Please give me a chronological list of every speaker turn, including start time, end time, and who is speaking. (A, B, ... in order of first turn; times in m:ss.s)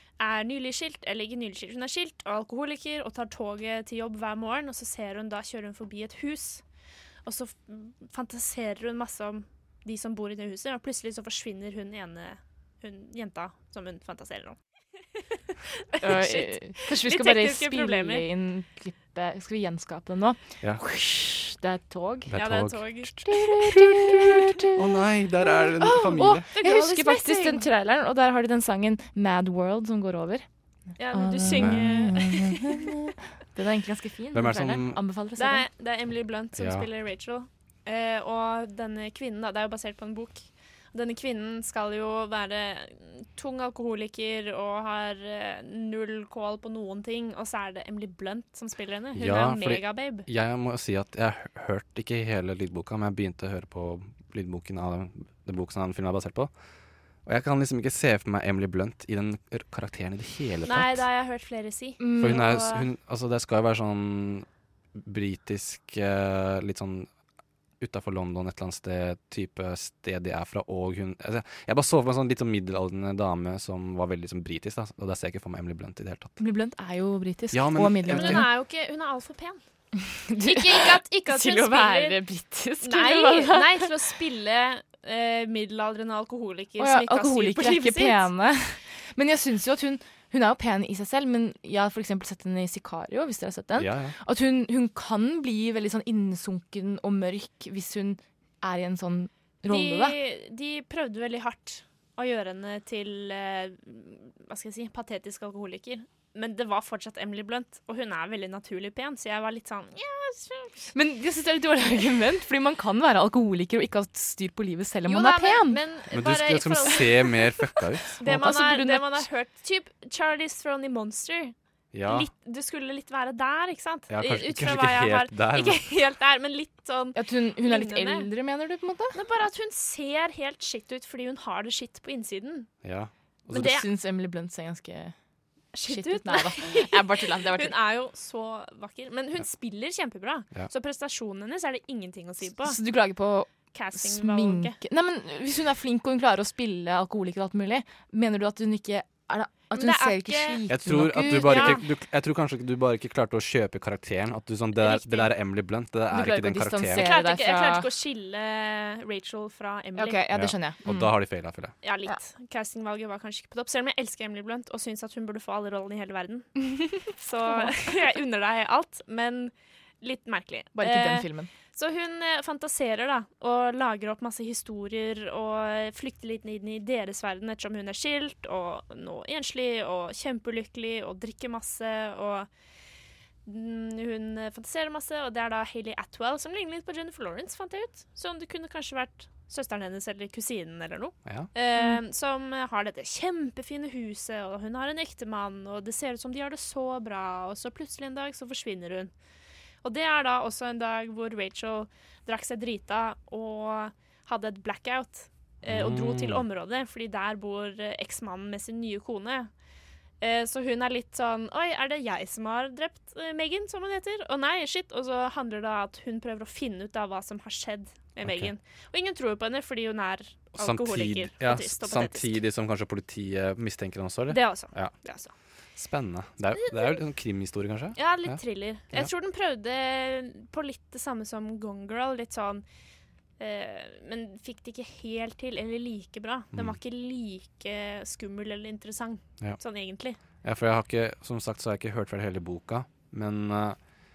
0:00.2-0:06.6 A
0:07.2-0:14.6 A
0:15.8-0:18.2 A
0:16.0-0:22.3 B
0:22.3-0:26.4 C
0:22.3-0:23.5 A
0:23.3-0:30.4 B
0:26.5-0:27.6 A
0:31.0-0:32.9 A
0:31.0-0:35.6 B
0:31.4-0:32.1 C
0:34.3-0:35.0 C
0:35.4-0:50.3 A
0:36.6-0:36.9 C
0:49.1-0:56.5 C
0:57.2-1:01.0 C
1:00.6-1:02.8 A
1:02.0-1:02.4 B
1:02.2-1:07.1 C
1:07.8-1:16.4 C
1:16.4-1:18.5 B
1:17.5-1:18.5 C
1:18.1-1:19.6 A
1:20.1-1:24.0 B
1:20.4-1:22.2 A
1:22.8-1:28.3 A
1:26.8-1:40.2 B
1:33.8-1:34.1 C
1:39.7-1:50.9 A
1:50.9-1:55.8 B
1:55.1-1:57.5 A
1:56.1-1:58.2 C
1:58.2-2:01.5 A
1:58.2-1:59.3 B
2:01.9-2:02.3 C
2:02.0-2:08.3 A
2:04.1-2:05.8 C
2:07.2-2:09.2 B
2:09.1-2:12.7 A
2:12.8-2:13.7 C
2:13.5-2:13.8 A
2:13.5-2:15.1 B
2:15.7-2:22.8 A
2:15.8-2:17.7 B
2:22.6-2:31.8 B
2:23.7-2:24.8 A
2:29.7-2:30.6 A
2:30.7-2:37.1 C
2:31.2-2:31.8 A
2:34.8-2:35.3 A
2:36.1-2:37.9 B
2:37.0-2:40.2 A
2:40.0-2:41.1 B
2:40.3-2:41.7 C
2:41.8-3:02.5 A
2:50.8-2:51.5 B
3:03.4-3:19.1 A
3:11.8-3:12.0 B
3:19.8-3:29.5 A
3:25.6-3:26.4 C
3:30.2-3:42.4 A
3:38.2-3:38.5 C
3:40.5-3:44.9 C
3:44.3-3:45.3 A
3:45.8-3:48.4 C
3:46.5-3:47.0 A
3:48.0-3:52.6 A
3:53.4-4:00.2 A
4:00.4-4:03.8 C